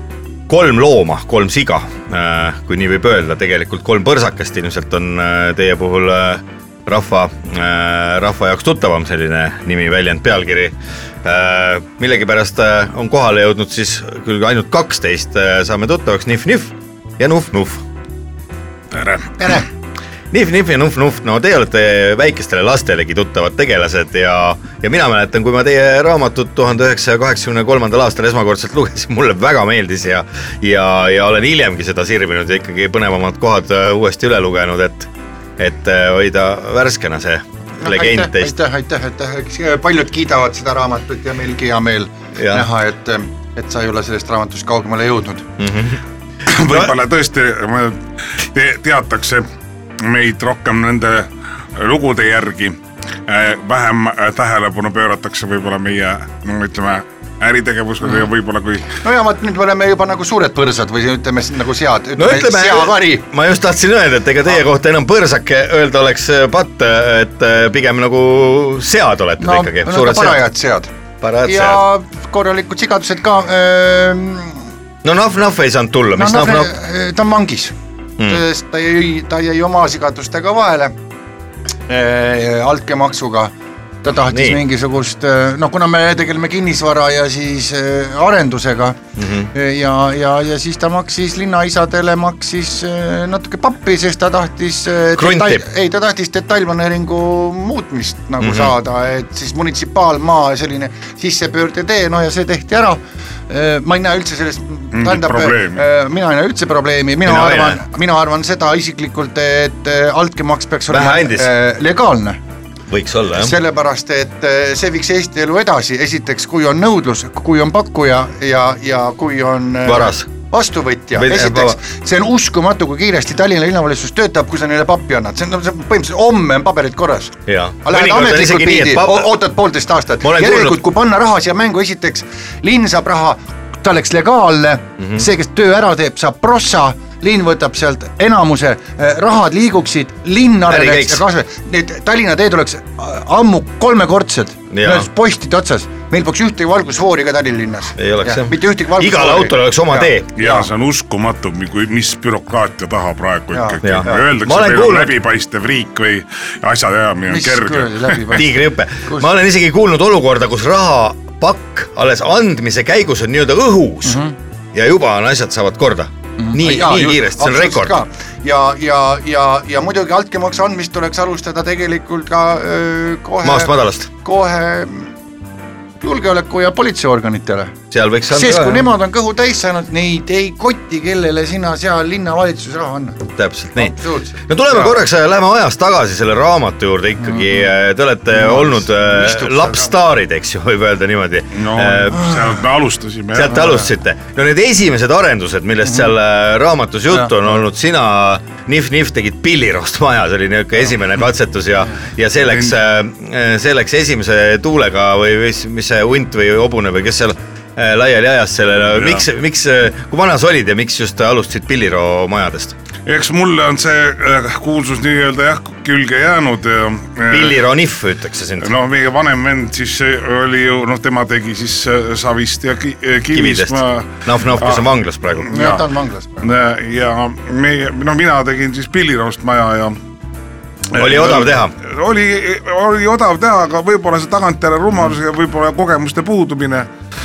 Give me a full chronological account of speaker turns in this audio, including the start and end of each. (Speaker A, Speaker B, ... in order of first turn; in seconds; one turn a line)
Speaker A: 0.5-17.8
Speaker B: 18.9-19.6
Speaker C: 19.4-19.6
Speaker A: 20.3-38.5
Speaker C: 37.8-45.5
Speaker A: 42.4-42.7
Speaker A: 45.6-46.0
Speaker B: 46.5-49.5
Speaker A: 46.7-46.9
Speaker B: 50.0-59.0
Speaker C: 59.0-63.3
Speaker A: 62.2-70.5
Speaker C: 69.4-70.9
Speaker A: 71.2-71.8
Speaker C: 71.4-74.6
Speaker A: 75.0-76.7
Speaker C: 76.2-77.8
Speaker C: 78.3-81.0
Speaker C: 81.9-83.5
Speaker C: 84.0-89.0
Speaker A: 84.3-84.6
Speaker A: 89.2-89.5
Speaker C: 89.5-112.4
Speaker A: 95.2-95.7
Speaker A: 98.4-98.7
Speaker B: 104.9-105.8
Speaker A: 107.2-107.8
Speaker A: 110.9-111.5
Speaker A: 112.9-113.6
Speaker C: 113.3-150.7
Speaker A: 119.8-120.3
Speaker A: 121.2-121.8
Speaker A: 127.5-129.4
Speaker A: 130.2-130.8
Speaker A: 140.7-141.2
Speaker A: 144.7-145.1
Speaker A: 148.0-150.3
Speaker B: 150.4-158.4
Speaker C: 153.5-154.3
Speaker A: 153.8-155.2
Speaker C: 157.3-159.3
Speaker A: 158.3-164.2
Speaker C: 164.1-164.3
Speaker A: 164.7-168.0
Speaker C: 166.4-175.1
Speaker A: 173.4-174.1
Speaker C: 176.0-177.8
Speaker A: 177.9-178.9
Speaker C: 178.3-185.0
Speaker A: 183.3-192.3
Speaker C: 187.2-187.6
Speaker C: 188.3-189.9
Speaker B: 191.5-193.8
Speaker A: 193.3-212.8
Speaker C: 197.1-197.4
Speaker B: 202.5-202.7
Speaker B: 209.0-209.2
Speaker B: 213.1-217.6
Speaker A: 217.3-218.7
Speaker B: 218.6-224.9
Speaker A: 223.3-225.6
Speaker B: 225.4-225.8
Speaker C: 225.5-226.5
Speaker B: 226.4-230.0
Speaker B: 230.9-236.9
Speaker A: 230.9-231.8